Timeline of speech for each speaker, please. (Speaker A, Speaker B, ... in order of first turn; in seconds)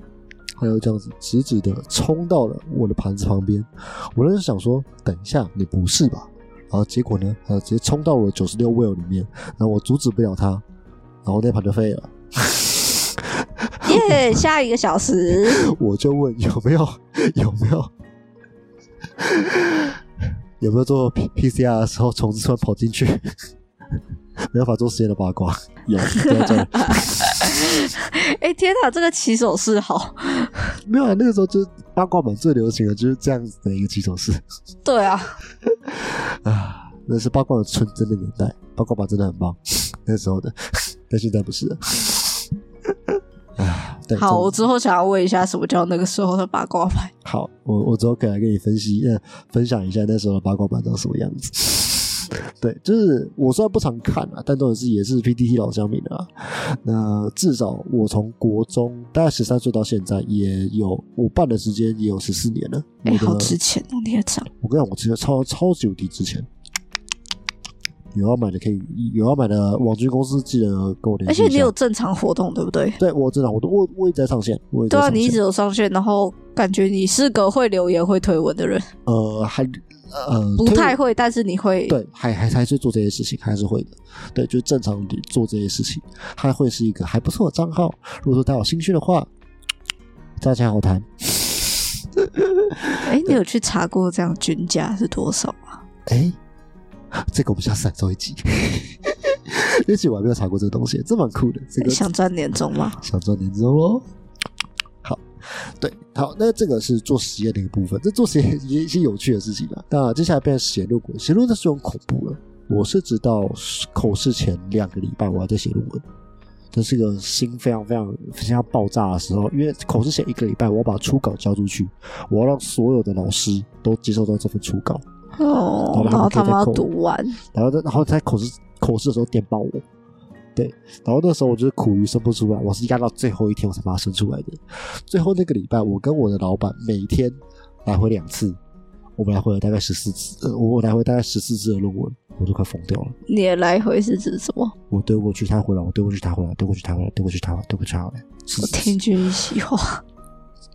Speaker A: 0.6-10.6, 11.2-14.4, 15.6-17.9, 19.2-20.0, 20.6-23.2, 24.5-27.5, 30.9-34.4, 35.9-40.6, 41.1-42.4, 43.1-44.6, 47.2-63.6, 64.6-66.5, 68.1-71.7, 73.0-75.4, 79.1-81.0, 81.9-89.3, 90.4-93.4, 96.1-96.4, 97.2-102.1, 103.0-104.1, 105.0-116.0, 116.7-125.0, 125.9-126.9, 127.5-129.8, 130.6-138.6, 139.2-143.2, 144.9-149.0
Speaker B: 13.8-15.7, 26.3-30.7, 34.9-35.4, 44.2-47.1, 63.0-64.5, 71.3-73.0, 74.9-78.9, 80.6-82.0, 93.0-95.8, 101.8-103.0, 125.4-127.4, 143.3-144.7, 148.6-150.0